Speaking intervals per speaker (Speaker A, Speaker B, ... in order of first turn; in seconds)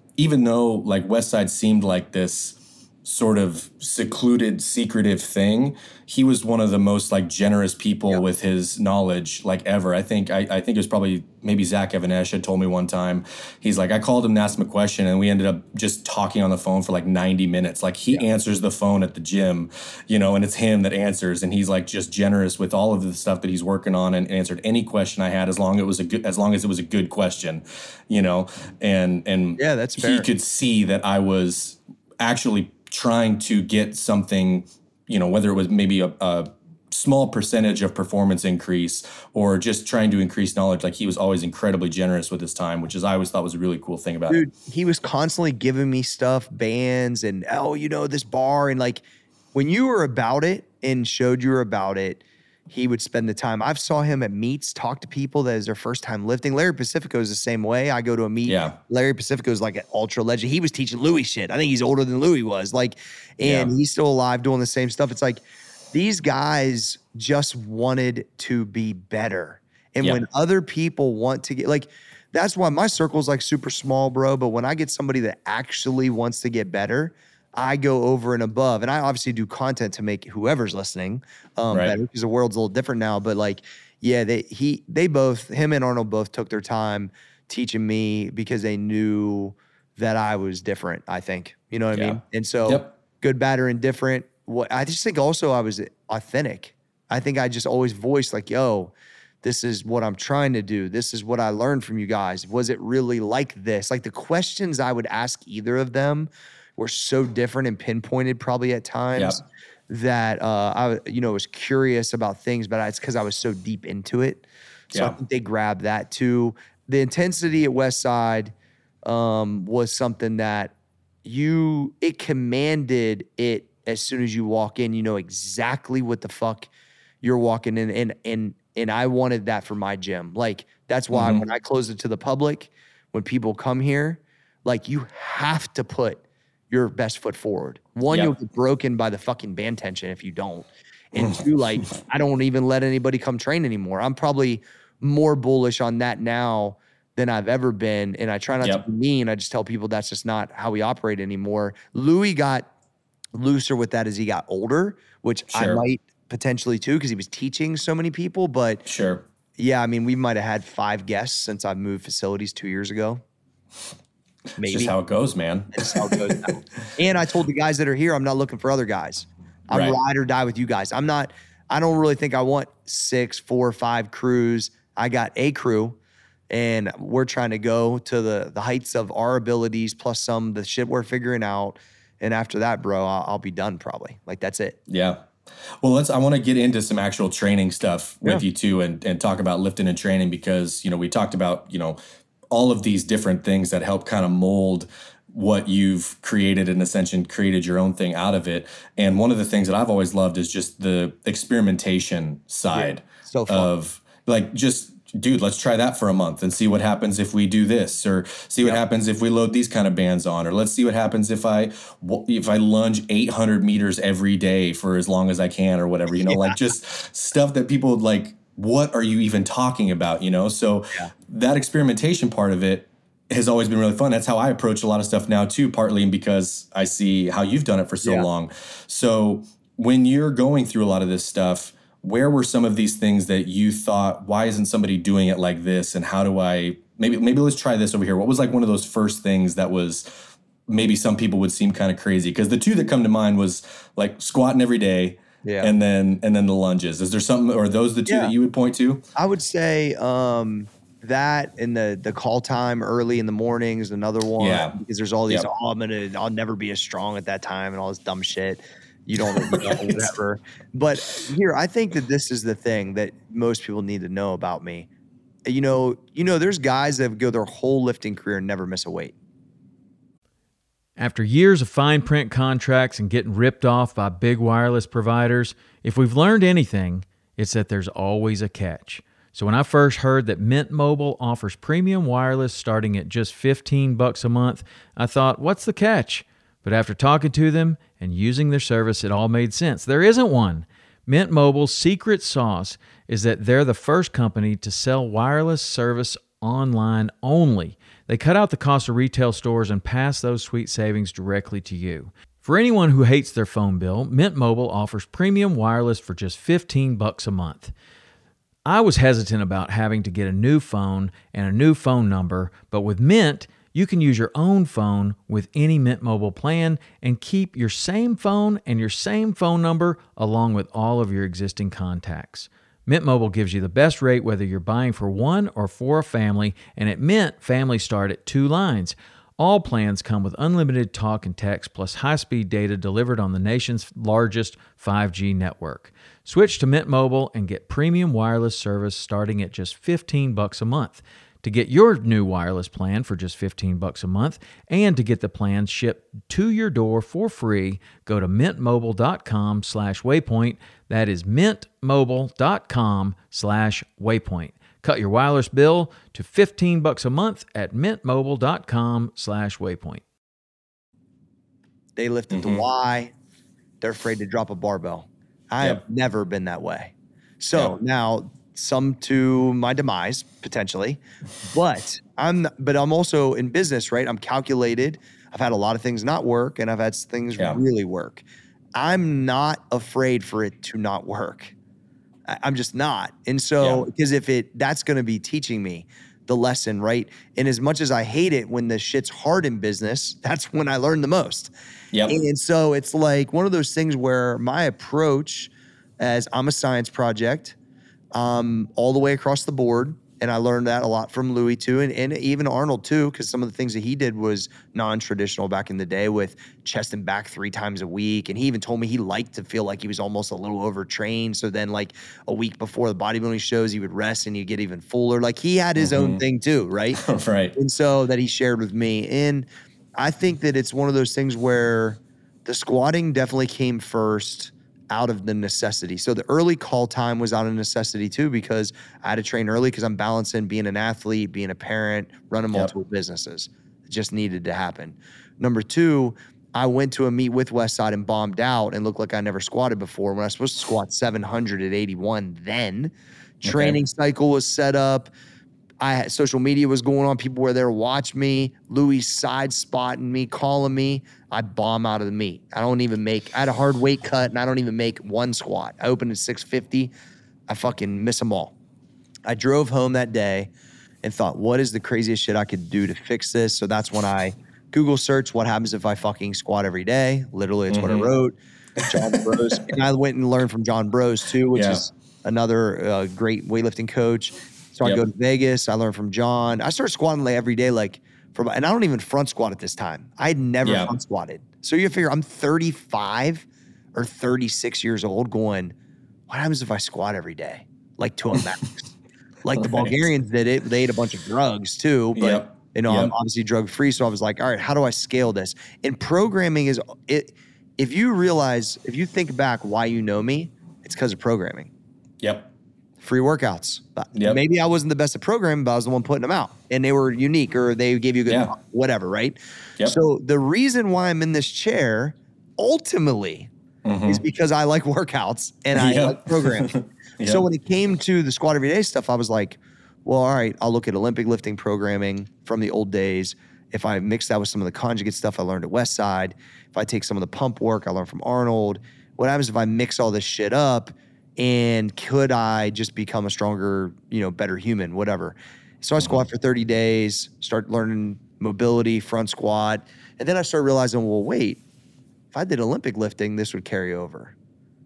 Speaker A: 0.1-44.4, 58.5-58.8, 63.4-63.7, 81.7-82.0, 91.9-92.9, 114.9-115.2, 131.1-131.4, 141.1-141.4, 155.5-155.8, 158.8-159.2, 164.6-166.2, 169.7-170.0, 184.9-185.3, 185.8-192.0, 192.5-249.0, 254.4-254.8, 259.2-260.1, 362.3-362.6, 383.6-383.9, 415.8-416.2, 416.9-417.5, 443.4-443.8, 467.7-468.1, 468.8-469.4, 471.5-471.8, 480.6-480.9, 489.6-489.9, 492.1-493.1, 502.2-502.5, 508.3-508.5, 513.8-514.2, 515.7-517.4
Speaker B: 29.6-30.3, 44.3-118.5, 119.0-120.7, 121.2-126.7, 127.2-152.7, 153.3-158.8, 159.6-163.2, 164.6-164.9, 165.7-176.0, 176.5-184.8, 202.7-203.7, 216.3-216.6, 245.4-245.7, 248.1-248.3, 249.1-264.9, 265.4-269.1, 362.0-363.1, 363.8-378.2, 378.7-381.5, 382.3-391.5, 392.1-397.5, 398.1-417.0, 417.5-445.1, 445.8-456.9, 457.5-458.5, 459.2-460.5, 461.0-468.3, 468.8-485.7, 486.3-488.9, 489.4-501.7, 503.0-513.5, 514.0-516.7, 517.2-541.6, 542.3-544.3
Speaker C: 271.0-307.7, 308.6-360.0